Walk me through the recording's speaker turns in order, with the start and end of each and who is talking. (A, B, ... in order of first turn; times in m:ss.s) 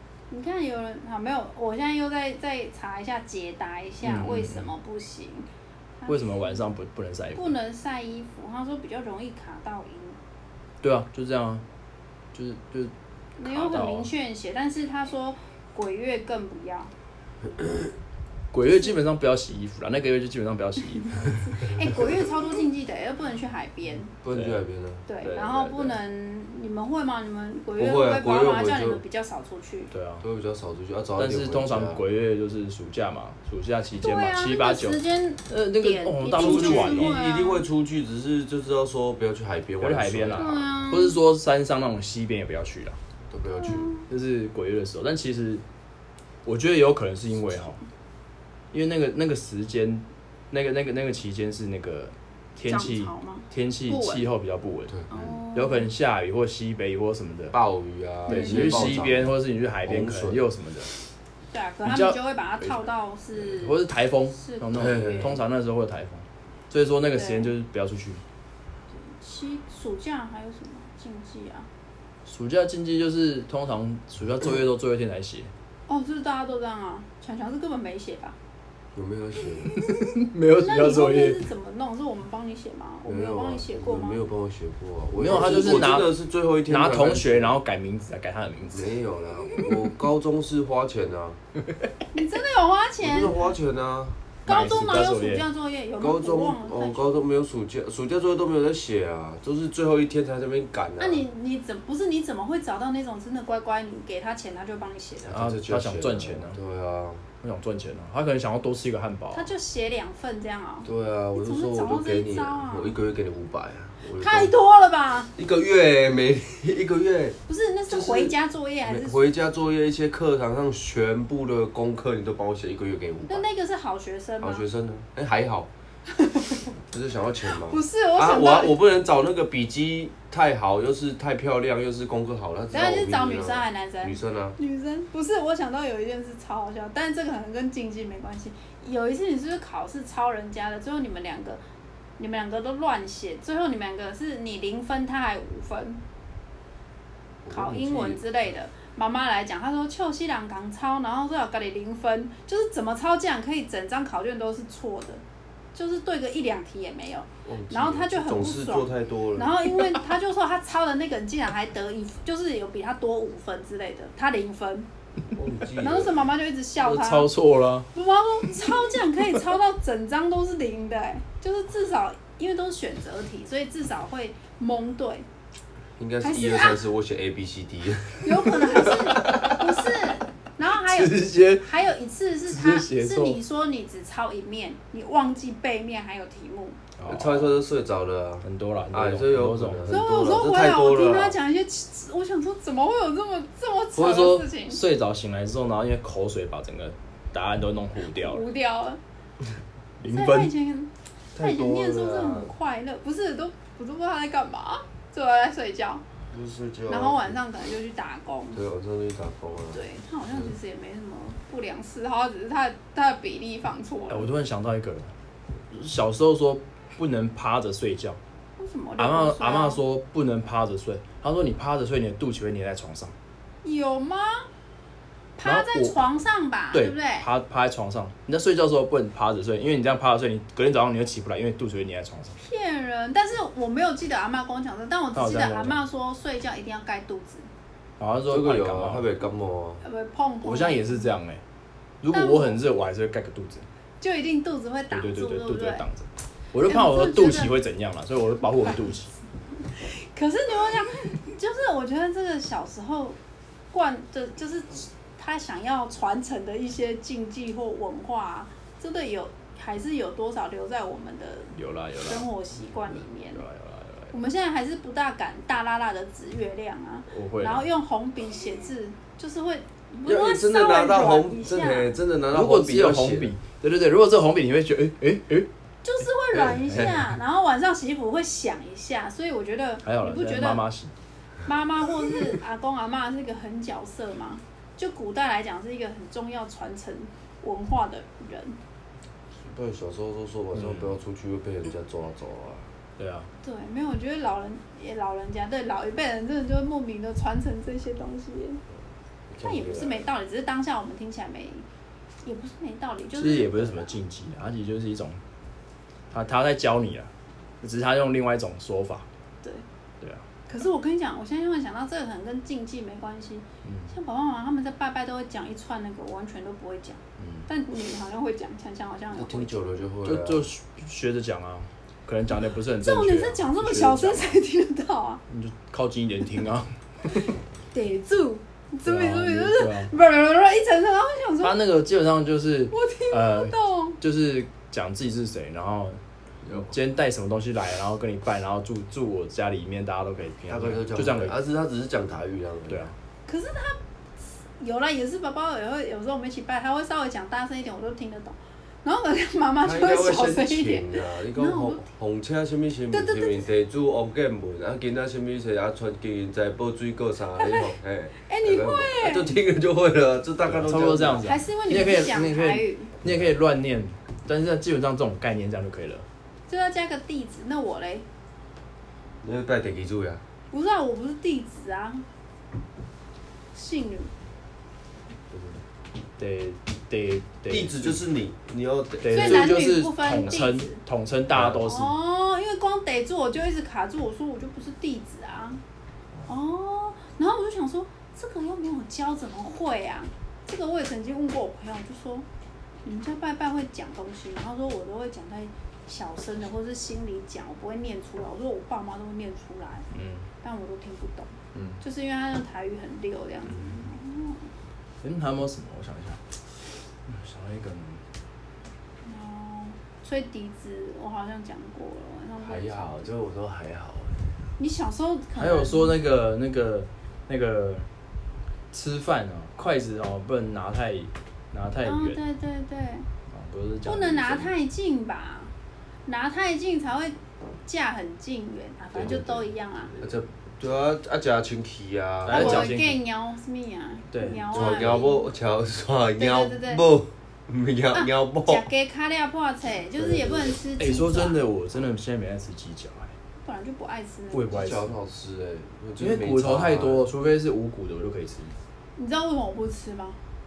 0:00.3-0:05.5 A
0:04.0-0:04.7 B
0:06.0-0:06.7 A
0:06.1-0:07.5 B
0:07.3-0:10.2 A
0:10.8-0:11.6 B
0:12.3-0:14.1 B
0:13.4-0:16.9 A
0:18.5-0:21.5 B
0:21.4-0:24.1 A
0:24.2-0:25.0 C
0:24.3-0:24.6 B
0:25.1-0:29.9 A
0:25.2-0:26.0 B
0:27.8-0:29.0 C
0:29.9-0:30.2 B
0:30.2-0:32.0 C
0:31.2-0:37.2 B
0:34.0-0:37.6 A
0:36.3-0:40.6 C
0:39.8-0:43.0 B
0:40.3-0:41.2 A
0:43.3-0:43.9 C
0:43.5-0:44.1 A
0:44.1-0:45.6 B
0:46.4-0:47.8 B
0:48.7-0:55.0 B
0:52.7-0:54.2 A
0:54.9-0:55.4 C
0:55.1-0:55.9 A
0:55.5-0:57.6 B
0:57.5-1:00.4 C
0:58.3-0:59.0 A
0:58.3-1:00.9 B
1:01.5-1:03.8 A
1:01.8-1:08.2 B
1:04.3-1:05.4 A
1:04.7-1:05.4 C
1:07.1-1:07.5 A
1:08.9-1:11.7 A
1:12.2-1:15.5 B
1:15.9-1:18.4 A
1:18.9-1:19.7 C
1:19.7-1:21.4 B
1:20.5-1:24.2 A
1:23.1-1:27.5 C
1:25.2-1:28.9 B
1:25.3-1:25.9 A
1:28.7-1:31.4 C
1:29.5-1:29.8 B
1:32.1-1:33.4 A
1:33.0-1:34.6 C
1:34.4-1:37.2 A
1:34.4-1:35.4 B
1:36.0-1:41.2 C
1:41.0-1:45.4 A
1:45.2-1:47.2 C
1:45.3-1:46.6 B
1:47.4-1:49.5 B
1:49.3-1:52.9 A
1:50.8-1:54.5 C
1:54.2-1:55.3 A
1:55.4-1:57.4 C
1:57.5-1:59.3 A
1:57.9-2:03.5 C
2:03.3-2:04.6 A
2:04.4-2:05.7 C
2:06.1-2:06.6 A
2:06.9-2:14.6 C
2:07.6-2:08.8 A
2:12.7-2:21.6 A
2:22.2-2:26.0 A
2:27.4-2:28.2 C
2:27.5-2:35.2 A
2:35.7-2:44.9 A
2:37.4-2:39.6 C
2:45.3-2:46.3 C
2:45.8-2:47.3 A
2:46.8-2:47.9 B
2:47.9-2:55.2 A
2:56.0-2:59.4 C
2:56.2-2:56.8 A
2:58.2-3:06.8 A
2:59.2-2:59.5 B
3:00.8-3:01.7 B
3:02.5-3:03.4 B
3:07.0-3:07.6 B
3:07.1-3:11.4 C
3:08.4-3:09.9 B
3:09.9-3:14.8 A
3:14.0-3:18.4 B
3:18.1-3:19.0 A
3:20.0-3:20.5 B
3:20.0-3:26.0 A
3:21.3-3:22.5 C
3:26.3-3:27.4 C
3:26.9-3:28.6 A
3:28.5-3:29.8 C
3:29.7-3:34.3 A
3:34.1-3:35.1 B
3:35.7-3:38.2 B
3:38.6-3:39.8 A
3:39.0-3:43.1 B
3:43.6-3:44.5 A
3:45.4-3:47.3 A
3:45.4-3:46.0 B
3:46.7-3:52.4 B
3:52.4-3:57.5 A
3:55.1-3:55.8 B
3:58.0-3:59.1 B
3:58.3-3:59.8 C
3:59.8-4:01.1 A
4:00.4-4:01.4 B
4:02.0-4:03.6 B
4:02.1-4:02.6 A
4:04.0-4:05.8 A
4:04.9-4:09.1 B
4:06.6-4:07.5 A
4:09.7-4:13.2 A
4:13.7-4:23.4 A
4:21.6-4:22.3 B
4:23.3-4:24.1 B
4:24.1-4:32.0 A
4:27.1-4:27.7 B
4:30.0-4:33.3 C
4:32.3-4:35.5 B
4:35.8-4:40.6 A
4:36.4-4:37.2 B
4:36.6-4:36.9 C
4:39.8-4:40.9 B
4:41.4-4:48.6 A
4:49.4-4:52.7 C
4:50.5-4:50.9 B
4:53.0-4:53.3 B
4:53.4-4:58.6 A
4:59.3-5:00.1 C
4:59.4-5:01.6 A
5:02.2-5:04.0 A
5:03.1-5:05.2 B
5:06.1-5:07.1 B
5:07.6-5:09.0 B
5:10.5-5:19.6 A
5:13.6-5:13.9 B
5:17.2-5:17.4 B
5:19.1-5:20.5 C
5:20.0-5:24.4 B
5:22.8-5:25.2 A
5:25.3-5:27.3 B
5:27.7-5:31.6 A
5:28.8-5:29.9 B
5:31.4-5:41.3 B
5:32.7-5:34.0 A
5:36.4-5:36.7 C
5:40.5-5:42.9 C
5:42.7-5:42.9 B
5:43.3-5:43.8 A
5:44.4-5:51.8 A
5:49.6-6:01.3 C
5:52.9-5:53.4 A
5:57.4-5:57.7 A
5:58.2-5:59.4 A
6:00.4-6:06.0 B
6:01.2-6:02.9 A
6:03.0-6:03.3 C
6:06.5-6:08.0 A
6:09.2-6:10.2 C
6:10.5-6:12.0 A
6:13.5-6:14.1 A
6:16.2-6:18.0 B
6:17.5-6:19.6 C
6:19.0-6:21.9 B
6:19.1-6:20.8 A
6:21.3-6:21.6 C
6:21.6-6:25.6 A
6:26.3-6:32.2 A
6:32.8-6:39.8 A
6:39.9-6:40.3 B
6:40.4-6:44.5 A
6:41.5-6:41.8 B
6:45.0-6:46.3 B
6:47.0-6:48.0 B
6:49.0-6:53.1 A
6:52.4-6:54.4 C
6:54.6-6:56.0 A
6:55.4-6:57.9 B
6:58.7-7:02.2 B
7:01.8-7:03.1 A
7:03.3-7:04.5 B
7:03.8-7:05.5 A
7:06.1-7:09.9 A
7:09.0-7:10.2 B
7:10.0-7:12.7 C
7:12.2-7:13.0 B
7:12.3-7:15.3 A
7:14.1-7:14.7 B
7:14.5-7:18.6 C
7:16.2-7:16.8 A
7:17.9-7:21.4 A
7:20.0-7:23.1 B
7:23.4-7:24.6 A
7:24.3-7:24.9 B
7:24.5-7:27.1 C
7:26.0-7:28.5 B
7:29.0-7:30.2 A